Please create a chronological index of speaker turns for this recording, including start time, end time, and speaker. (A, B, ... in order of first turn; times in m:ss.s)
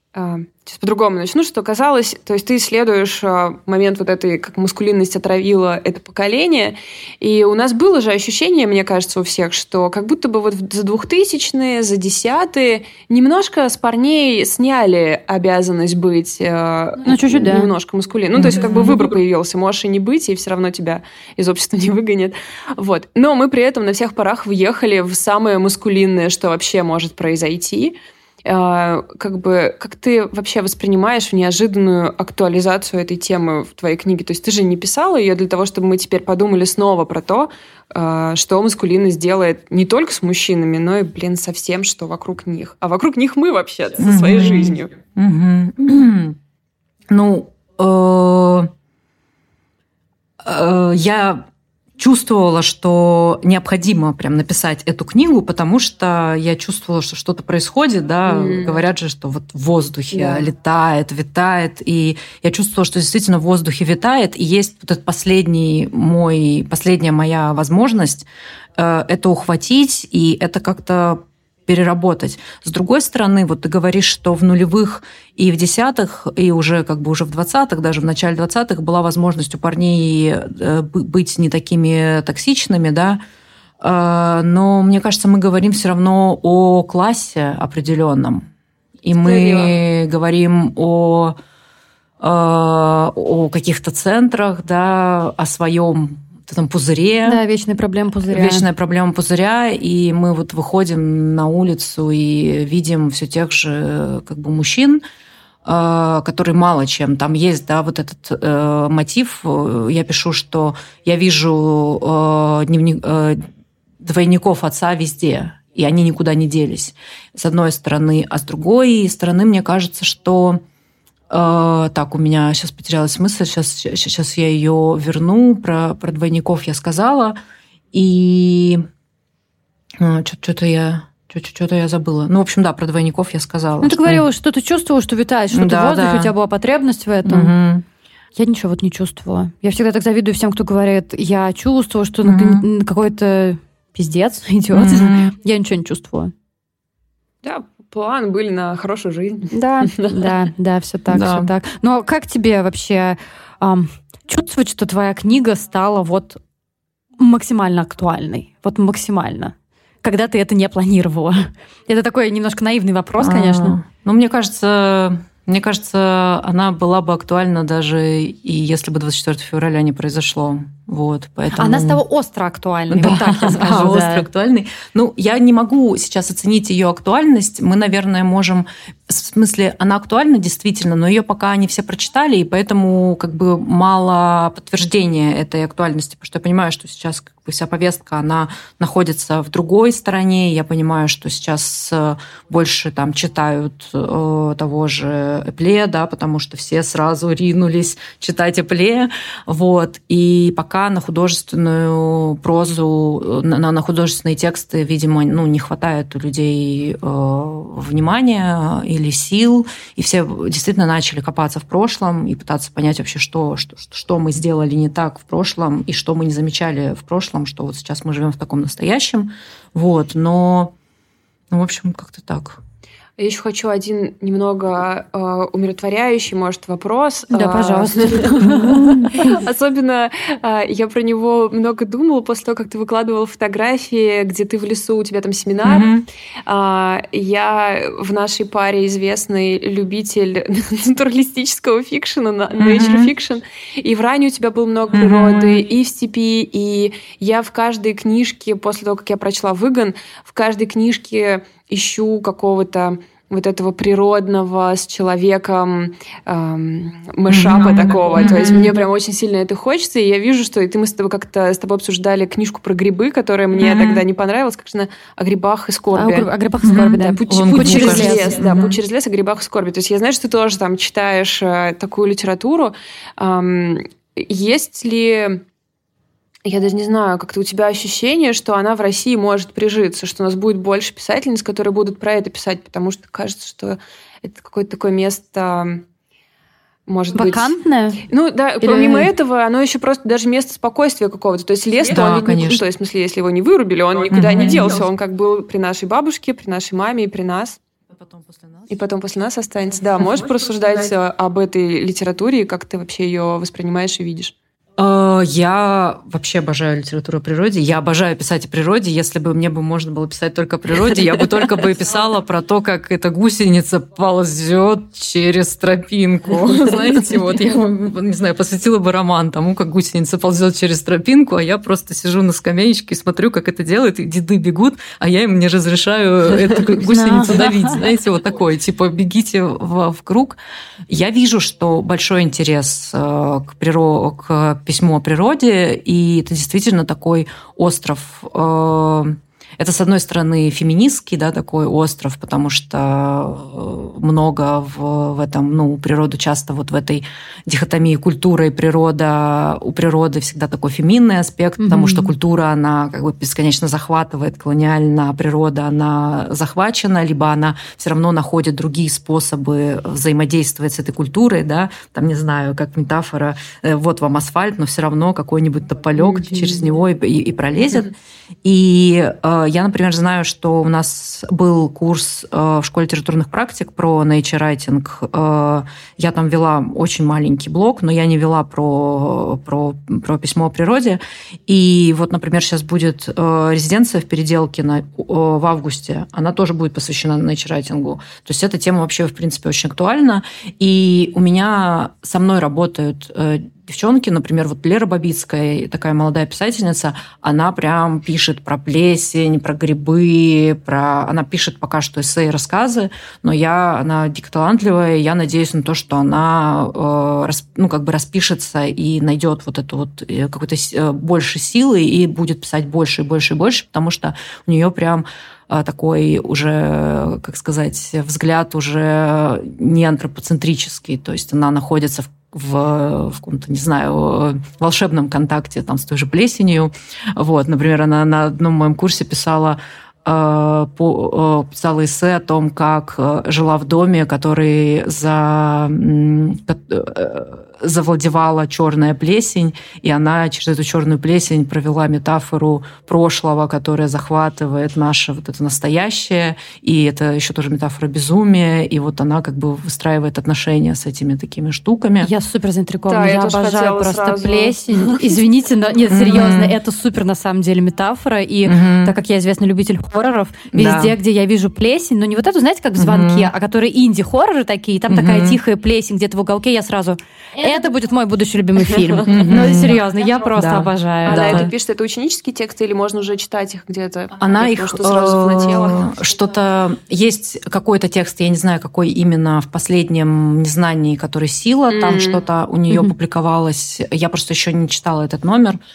0:00.1-0:44.9 A
0:17.0-0:17.7 B
0:18.4-0:19.0 C
0:44.0-0:46.4 C
0:47.1-0:48.7 C
0:50.4-0:51.4 C
0:52.0-1:23.2 C
0:58.2-0:58.8 A
1:00.1-1:00.4 A
1:23.8-1:28.4 C
1:29.0-1:31.3 C
1:29.2-1:29.7 A
1:32.2-1:37.4 C
1:37.2-1:38.6 B
1:38.3-1:45.0 C
1:45.6-1:53.4 C
1:54.0-2:00.6 C
2:01.3-2:07.4 C
2:07.9-2:08.8 C
2:10.0-2:14.2 C
2:13.8-2:17.5 B
2:15.5-2:16.3 C
2:17.2-2:17.8 C
2:18.4-2:26.3 B
2:22.2-2:22.6 C
2:24.7-2:25.3 C
2:27.4-2:30.3 A
2:29.5-2:36.4 B
2:31.1-2:31.5 C
2:37.2-2:43.8 B
2:43.2-2:52.0 C
2:51.5-2:54.2 B
2:52.9-3:40.7 C
3:41.5-3:42.6 C
3:43.2-3:55.9 A
3:47.3-3:49.1 B
3:55.6-3:56.0 C
3:56.4-4:26.3 A
4:02.6-4:03.1 C
4:04.9-4:05.6 C
4:17.3-4:18.7 C
4:23.6-4:24.0 C
4:25.9-4:28.4 B
4:26.6-4:28.7 C
4:26.9-4:35.4 A
4:36.4-4:45.8 A
4:46.9-4:47.5 A
4:47.1-4:48.0 B
4:48.1-4:57.6 A
4:48.6-4:49.1 B
4:51.9-4:52.6 C
4:54.1-4:54.8 C
4:57.9-4:58.8 C
4:58.7-5:04.3 A
5:04.8-6:07.9 C
5:26.8-5:27.8 B
5:51.6-5:52.1 B
6:08.4-7:32.1 C
7:32.0-7:51.5 B
7:32.9-7:35.2 A
7:35.9-7:36.6 C
7:38.4-7:38.9 C
7:40.5-7:41.0 C
7:42.8-7:43.3 C
7:44.9-7:45.4 C
7:49.0-7:49.8 C
7:50.4-7:51.5 C
7:51.0-7:55.9 A
7:54.2-8:05.6 C
8:01.7-8:02.2 A